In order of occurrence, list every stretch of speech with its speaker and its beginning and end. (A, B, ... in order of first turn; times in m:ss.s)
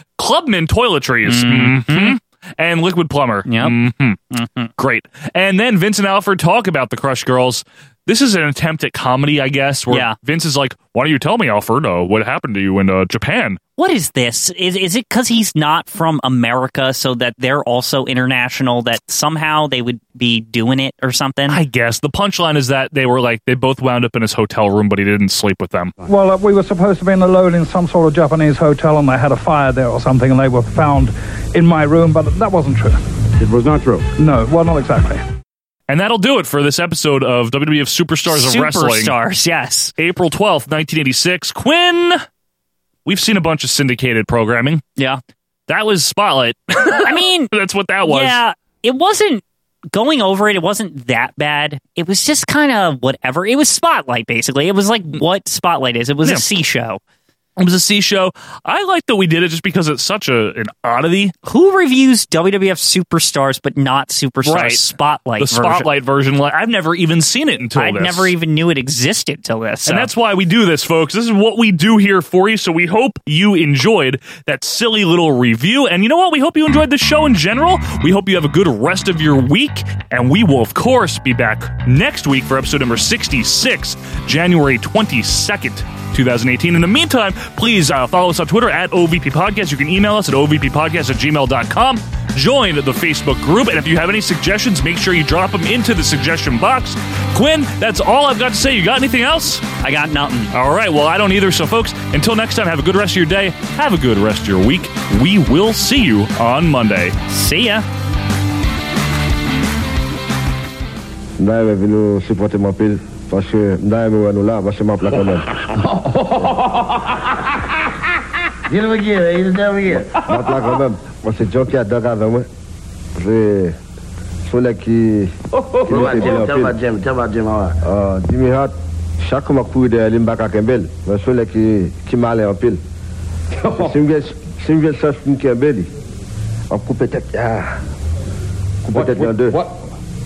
0:00.2-0:04.2 A
0:01.3-0:02.2 B
0:03.4-0:03.7 B
0:04.3-0:04.7 B
0:04.8-0:13.6 A
0:09.9-0:10.1 B
0:13.8-0:21.6 B
0:21.5-0:25.9 A
0:26.0-0:33.0 C
0:33.4-0:34.1 D
0:34.2-0:35.2 C
0:35.9-0:39.1 A
0:38.3-0:39.9 B
0:40.0-0:42.2 A
0:43.0-0:44.8 A
0:45.7-0:48.4 A
0:47.0-0:47.5 B
0:48.0-0:57.0 B
0:57.6-1:01.3 A
1:01.4-1:05.9 B
1:04.4-1:08.3 A
1:07.7-1:10.1 B
1:09.8-1:39.6 A
1:39.8-1:40.5 B
1:40.5-1:47.2 A
1:47.3-1:47.8 B
1:51.4-1:55.4 E
1:55.9-1:57.0 F
1:58.7-2:00.1 F
2:00.0-2:02.5 E
2:03.1-2:03.8 E
2:04.5-2:05.3 E
2:05.6-2:06.4 D
2:05.8-2:06.7 E
2:05.9-2:07.8 F
2:07.8-2:12.8 E
2:13.5-2:14.1 D
2:13.8-2:15.9 E
2:16.7-2:17.8 E
2:18.9-2:19.6 E
2:18.9-2:19.9 D